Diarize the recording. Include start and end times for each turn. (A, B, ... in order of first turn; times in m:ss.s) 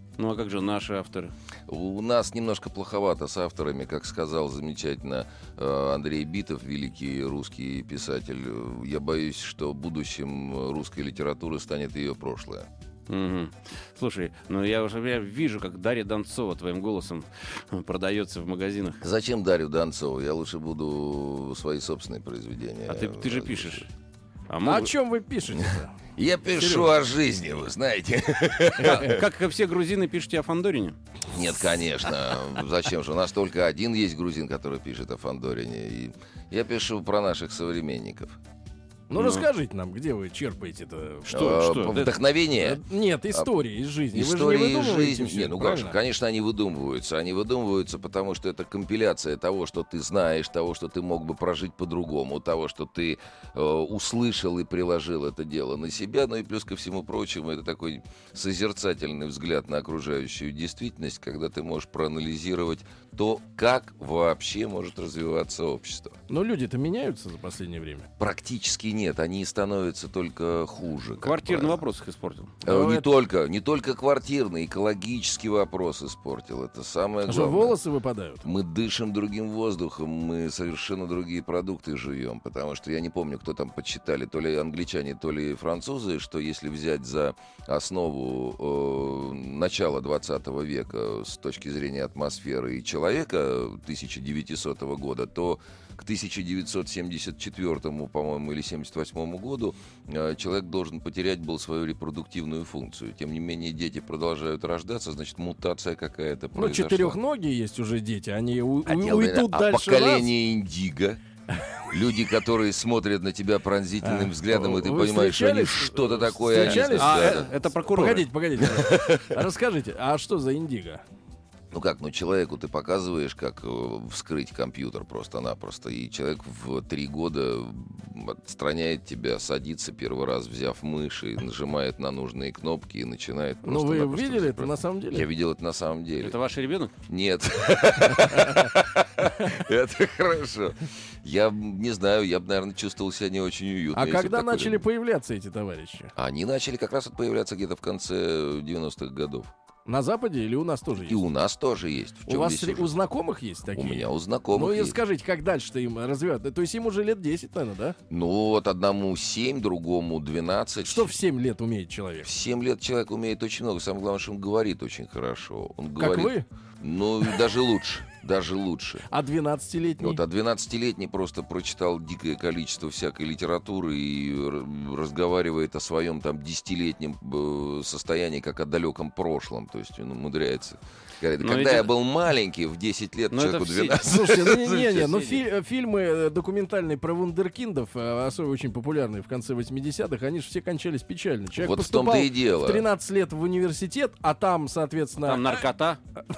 0:00.2-0:01.3 A
0:01.7-0:12.7 B
0:13.1-0:19.0 A
0:19.0-0:23.8 B
0:22.9-0:23.9 A
0:24.5-0:24.9 A
0:24.6-0:25.9 C
0:26.2-0:29.2 B
0:26.6-0:26.9 C
0:28.8-0:31.0 A
0:31.3-0:38.4 B
0:39.1-0:41.3 C
0:39.2-0:39.4 A
0:41.3-0:42.1 A
0:41.3-0:42.8 B
0:42.6-0:46.0 C
0:44.1-1:06.2 B
1:06.3-1:08.1 C
1:08.2-1:11.8 B
1:11.2-1:12.6 A
1:12.6-1:17.8 B
1:12.6-1:13.1 C
1:17.2-1:18.4 C
1:18.4-1:47.2 B
1:46.5-1:50.3 C
1:48.8-1:51.2 B
1:51.9-1:57.7 B
1:54.0-2:01.0 C
1:56.6-1:58.3 A
1:58.6-1:59.4 B
2:01.7-2:16.4 B
2:13.6-2:15.3 C
2:16.2-2:16.9 A
2:17.1-2:24.8 B
2:23.9-2:26.1 C
2:26.2-2:29.5 B
2:29.9-2:31.2 C
2:31.1-2:32.9 B
2:32.3-2:38.0 C
2:33.7-2:35.0 B
2:38.1-2:41.1 B
2:40.8-2:42.3 C
2:42.2-2:49.0 B
2:46.0-2:46.4 C
2:49.1-2:50.2 C
2:50.0-3:05.3 B
3:01.4-3:01.9 A
3:03.3-3:04.1 A
3:04.0-3:15.6 C
3:11.5-3:12.9 B
3:15.2-3:16.0 A